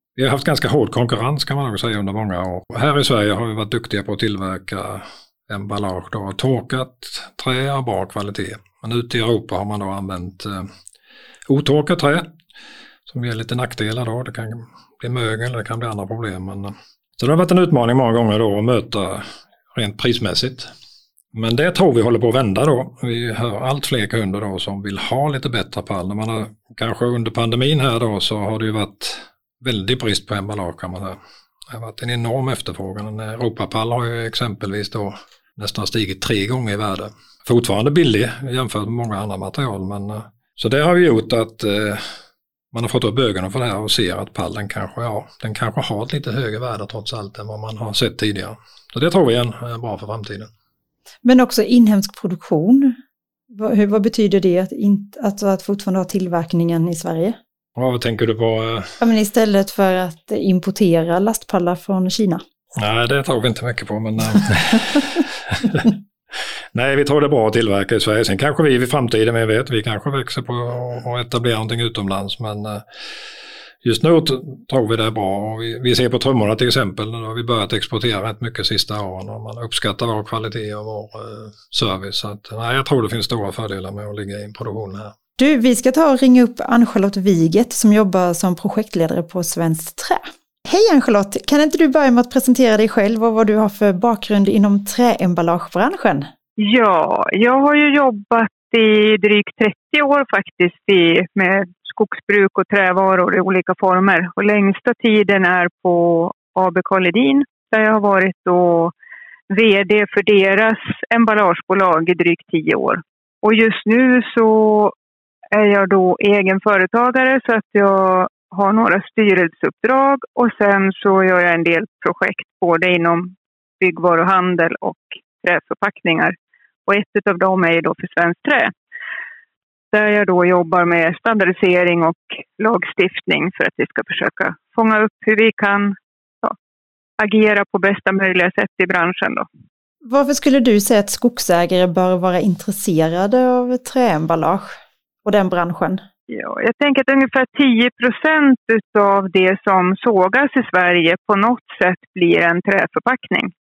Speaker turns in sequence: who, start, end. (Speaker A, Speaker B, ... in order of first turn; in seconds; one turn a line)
Speaker A: 0.1-10.7
Speaker A: 11.5-12.3
Speaker A: 13.1-20.7
Speaker A: 21.3-31.2
Speaker A: 31.7-42.0
Speaker A: 42.7-50.5
Speaker B: 51.2-53.0
Speaker B: 53.5-57.4
Speaker A: 57.8-58.9
Speaker B: 59.0-62.4
Speaker A: 62.8-65.9
Speaker A: 66.7-72.8
Speaker A: 73.8-85.1
Speaker B: 85.4-96.3
Speaker C: 96.6-108.9
Speaker C: 109.5-114.9
Speaker C: 115.5-126.3
Speaker C: 126.8-128.7
Speaker C: 129.9-136.5
Speaker C: 137.2-139.4
Speaker B: 140.0-146.0
Speaker C: 146.3-153.5